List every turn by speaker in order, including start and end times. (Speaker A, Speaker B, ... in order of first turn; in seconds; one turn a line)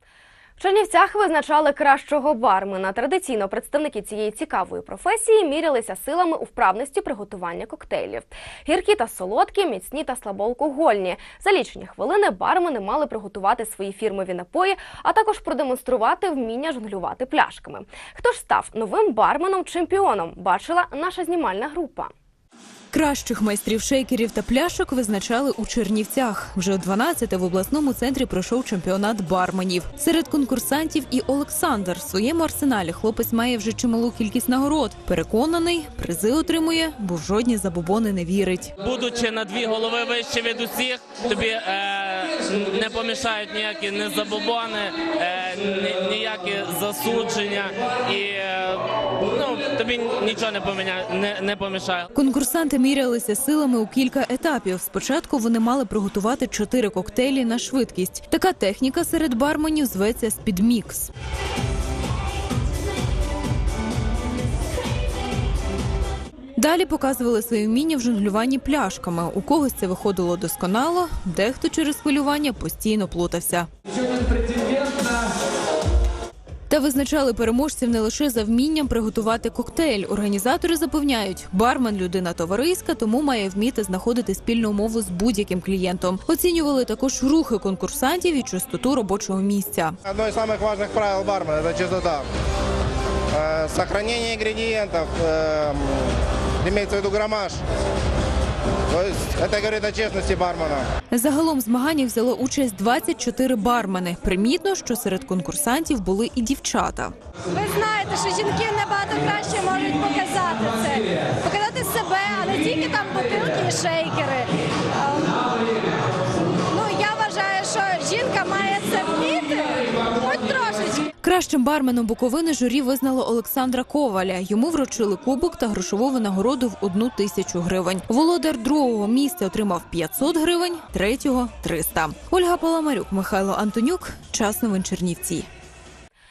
Speaker A: 0.6-22.1
Speaker B: 22.9-38.7
Speaker C: 38.8-52.1
Speaker B: 52.1-61.1
Speaker B: 66.5-73.7
Speaker B: 76.7-90.0
Speaker D: 90.1-92.2
Speaker D: 93.3-96.0
Speaker D: 96.6-97.6
Speaker D: 98.9-100.9
Speaker B: 101.1-107.1
Speaker E: 107.5-115.7
Speaker E: 116.7-121.0
Speaker B: 121.2-135.5